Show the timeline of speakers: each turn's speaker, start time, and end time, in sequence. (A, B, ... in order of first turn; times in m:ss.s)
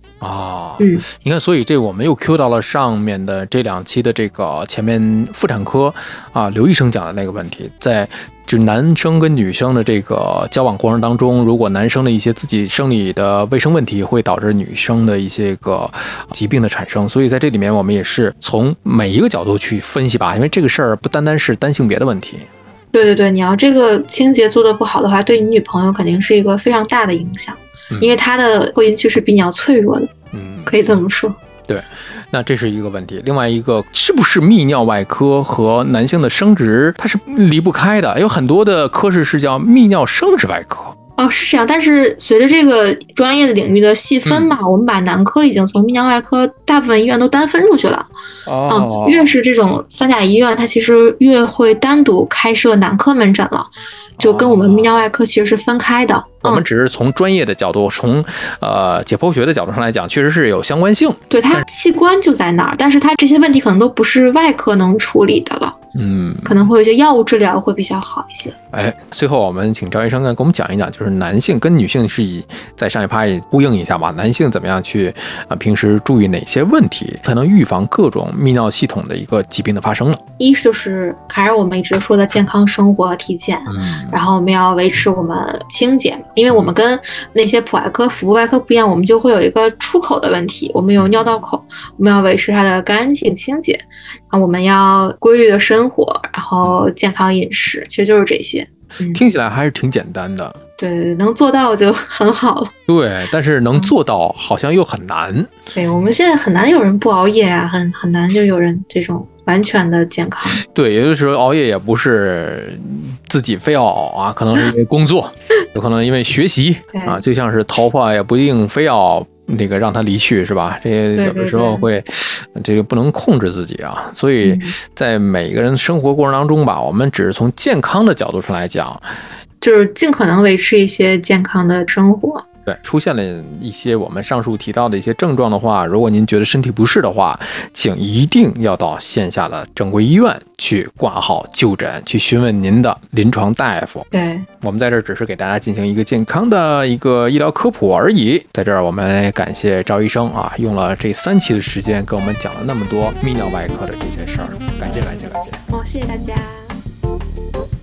0:00.2-0:22.5 A
0:00.8-0:01.0 B
0:22.9-0:30.1 B
0:27.9-0:28.2 A
0:30.3-0:31.0 A
0:30.6-0:31.4 B
0:31.7-0:40.9 A
0:41.2-0:48.1 B
0:44.2-0:44.5 A
0:48.4-0:49.3 A
0:48.7-0:56.6 B
0:54.2-0:55.0 A
0:56.4-1:01.6 A
1:01.3-1:05.8 B
1:05.9-1:06.6 A
1:06.4-1:08.5 B
1:08.7-1:20.2 A
1:20.4-1:39.2 B
1:23.7-1:24.2 A
1:31.0-1:31.3 A
1:39.1-1:40.6 A
1:40.8-1:42.7 B
1:42.9-1:45.5 A
1:45.7-1:50.6 B
1:50.6-2:09.0 A
1:56.9-1:57.2 B
2:01.2-2:01.9 B
2:04.4-2:04.8 B
2:09.6-2:12.4 B
2:12.6-2:24.1 A
2:24.1-2:24.5 B
2:24.6-2:35.6 A
2:35.7-2:36.7 B